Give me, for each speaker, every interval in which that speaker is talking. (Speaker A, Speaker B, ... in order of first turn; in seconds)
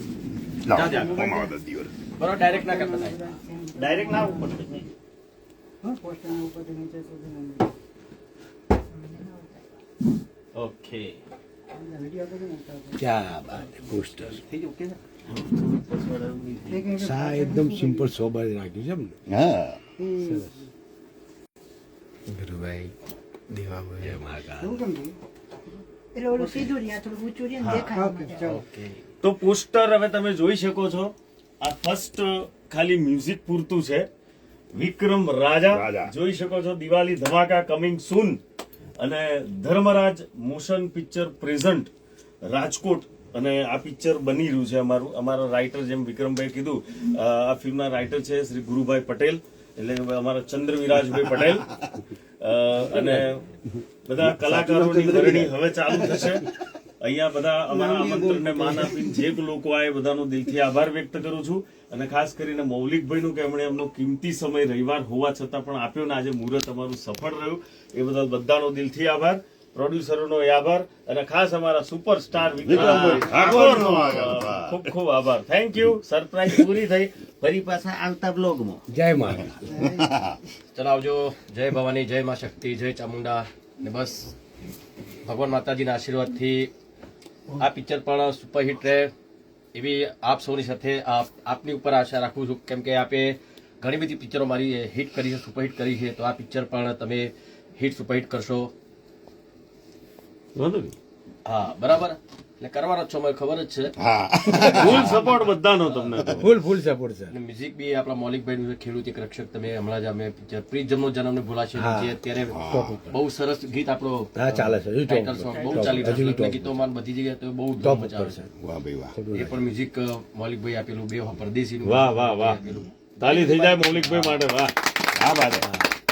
Speaker A: 0.6-1.9, 19.3-19.8, 35.7-36.1, 72.6-74.8, 79.9-80.4, 104.0-105.3, 106.2-106.4, 112.5-113.0, 118.6-119.2, 125.1-125.7
Speaker B: 0.7-1.5, 2.1-3.4, 28.4-29.0, 72.7-73.4, 80.7-84.3, 85.3-86.7, 87.5-89.1, 89.7-98.7, 101.5-104.0, 104.6-105.4, 107.3-118.5, 119.3-124.3
Speaker C: 3.0-4.3, 5.8-7.7, 11.7-13.0, 14.5-14.9, 16.7-18.1, 20.0-20.5, 24.6-25.1, 26.3-26.8, 27.8-28.6, 57.8-58.6
Speaker D: 3.7-4.9, 10.6-11.2, 15.3-17.0, 29.2-34.1, 34.8-38.4, 39.0-41.9, 42.5-51.7, 52.4-53.5, 54.1-78.8, 100.6-100.9, 104.6-106.5, 121.8-122.6, 123.2-124.9
Speaker E: 13.0-14.4, 17.0-19.2, 20.2-20.6, 22.4-22.9, 24.0-24.8, 54.2-56.3, 78.9-79.9, 106.3-107.3, 111.7-113.2, 114.3-116.8, 117.8-118.5, 119.1-119.6, 125.6-125.9
Speaker F: 26.2-28.5